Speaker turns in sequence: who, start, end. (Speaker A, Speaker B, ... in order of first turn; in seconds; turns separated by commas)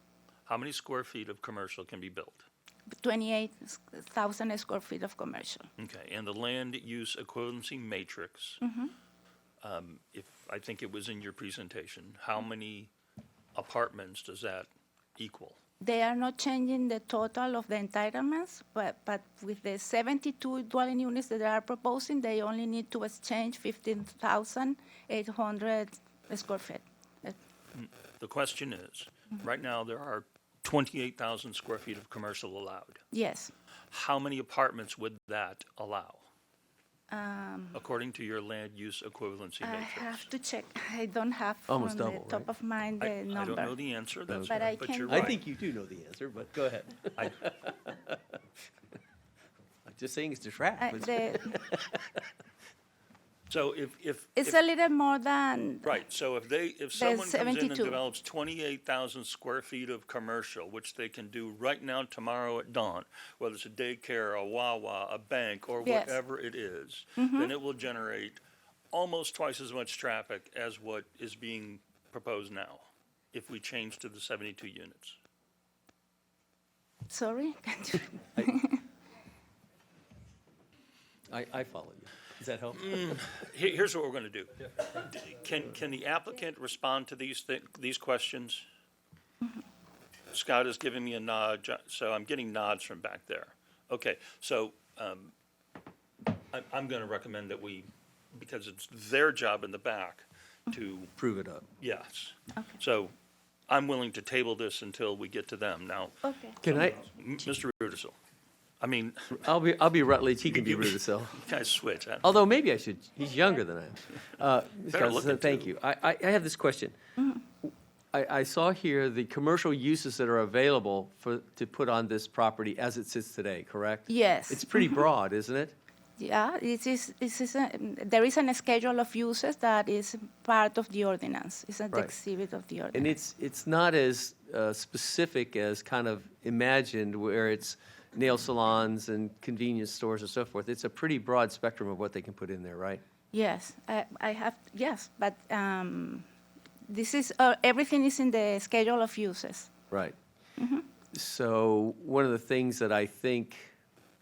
Speaker A: 0.5-2.5, Speaker B: 3.0-5.7, Speaker A: 5.8-8.6, Speaker B: 8.6-8.9, Speaker A: 9.6-12.9, Speaker A: 13.5-15.6, Speaker B: 15.8-27.3, Speaker A: 27.7-33.0, Speaker B: 33.1-33.5, Speaker A: 33.9-36.2, Speaker B: 37.1-37.8, Speaker A: 37.7-40.3, Speaker B: 39.6-43.7, Speaker C: 41.7-42.5, Speaker A: 43.0-45.4, Speaker C: 44.3-48.4, Speaker B: 44.5-45.4, Speaker C: 49.9-52.2, Speaker B: 50.8-51.6, Speaker A: 53.5-54.6, Speaker B: 54.4-56.0, Speaker A: 55.8-68.4, Speaker B: 57.0-58.0, Speaker B: 65.8-66.2, Speaker B: 67.2-67.5, Speaker A: 68.9-75.2, Speaker B: 77.1-78.8, Speaker C: 81.3-83.0, Speaker A: 82.8-88.6, Speaker A: 90.3-95.3, Speaker A: 96.5-101.1, Speaker C: 101.2-101.7, Speaker A: 101.8-103.1, Speaker A: 103.7-108.2, Speaker B: 106.2-106.6, Speaker C: 106.6-107.0, Speaker A: 108.8-109.4, Speaker C: 109.3-111.4, Speaker A: 110.5-112.3, Speaker C: 112.2-116.9, Speaker A: 114.9-115.7, Speaker C: 118.1-125.7, Speaker B: 124.1-125.0, Speaker B: 126.2-133.2, Speaker C: 132.9-143.0, Speaker B: 143.3-146.2, Speaker B: 146.9-149.7, Speaker C: 149.9-150.2, Speaker B: 150.6-150.8, Speaker C: 151.1-153.7